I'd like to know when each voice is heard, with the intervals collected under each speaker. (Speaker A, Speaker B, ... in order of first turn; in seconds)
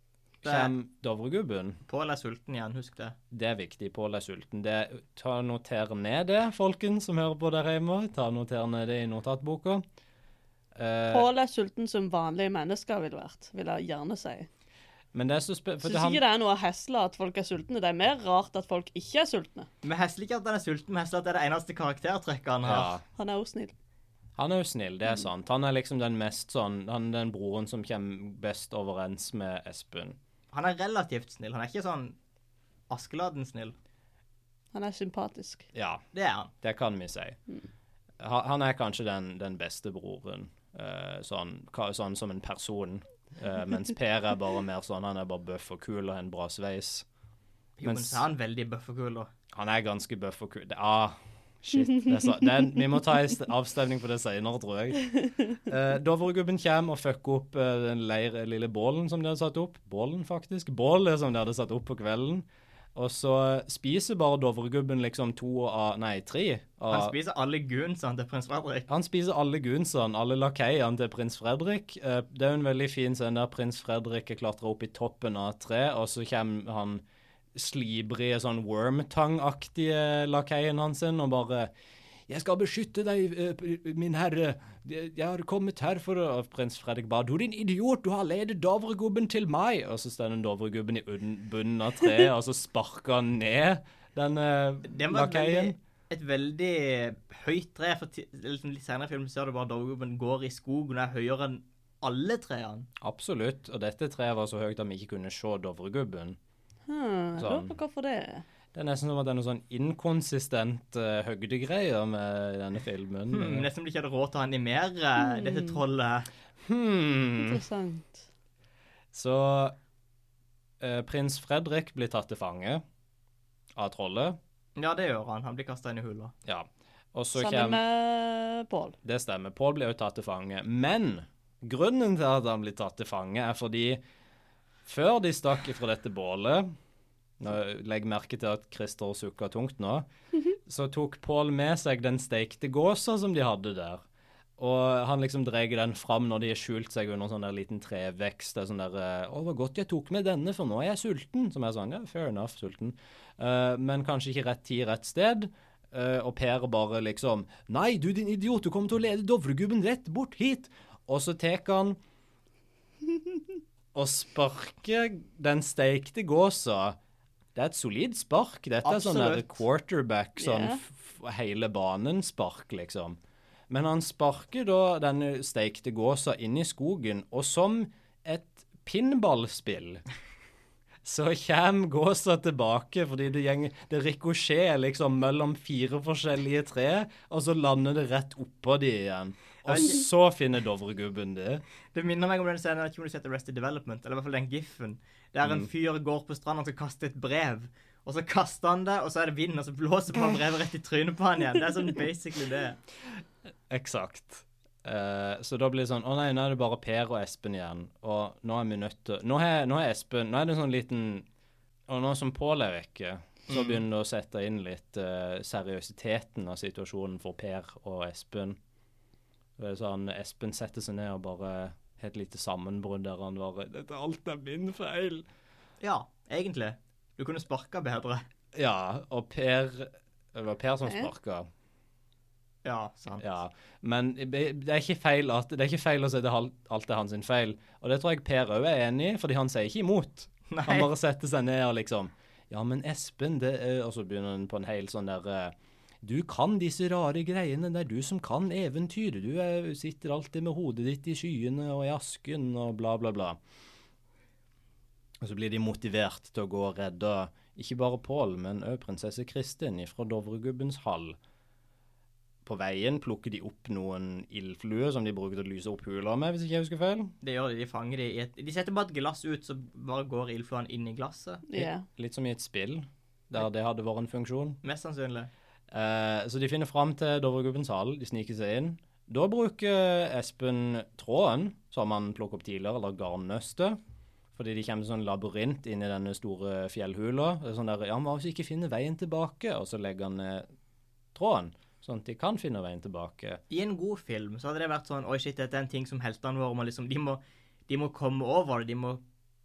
Speaker A: 0.4-0.7, 1.9-3.2, 19.8-23.0, 30.5-32.2, 32.9-33.8, 36.1-36.5, 47.8-49.3, 66.9-68.9, 94.8-102.9, 113.3-116.3, 124.8-126.3, 168.8-169.6, 189.7-189.9, 191.9-202.8, 213.5-213.8, 225.8-228.2, 232.6-233.2, 240.5-240.9, 267.2-271.4, 274.6-275.3, 293.5-299.0
Speaker B: 0.4-1.8, 3.3-9.8, 10.8-11.3, 15.1-16.2, 22.6-23.0, 24.4-30.2, 35.7-36.0, 36.6-37.4, 38.2-47.0, 47.8-48.2, 49.5-67.1, 68.9-77.0, 77.5-81.7, 82.3-95.8, 103.0-106.4, 107.4-107.7, 108.7-113.7, 116.6-117.6, 119.1-119.7, 120.8-122.8, 123.8-124.4, 126.5-127.8, 129.0-134.0, 134.9-136.7, 137.4-144.0, 144.6-162.0, 163.9-167.0, 167.6-173.2, 173.7-180.0, 181.0-191.6, 203.7-211.3, 211.9-218.6, 219.6-225.3, 228.5-231.5, 233.2-253.4, 255.2-261.2, 262.4-267.1, 271.6-274.6, 275.7-283.8, 284.4-290.5, 291.1-293.4
Speaker C: 11.1-14.5, 15.8-19.7, 23.2-23.7, 34.7-35.6, 106.9-108.4, 115.3-115.8, 117.4-118.2, 127.4-128.9, 170.4-170.8, 271.5-271.9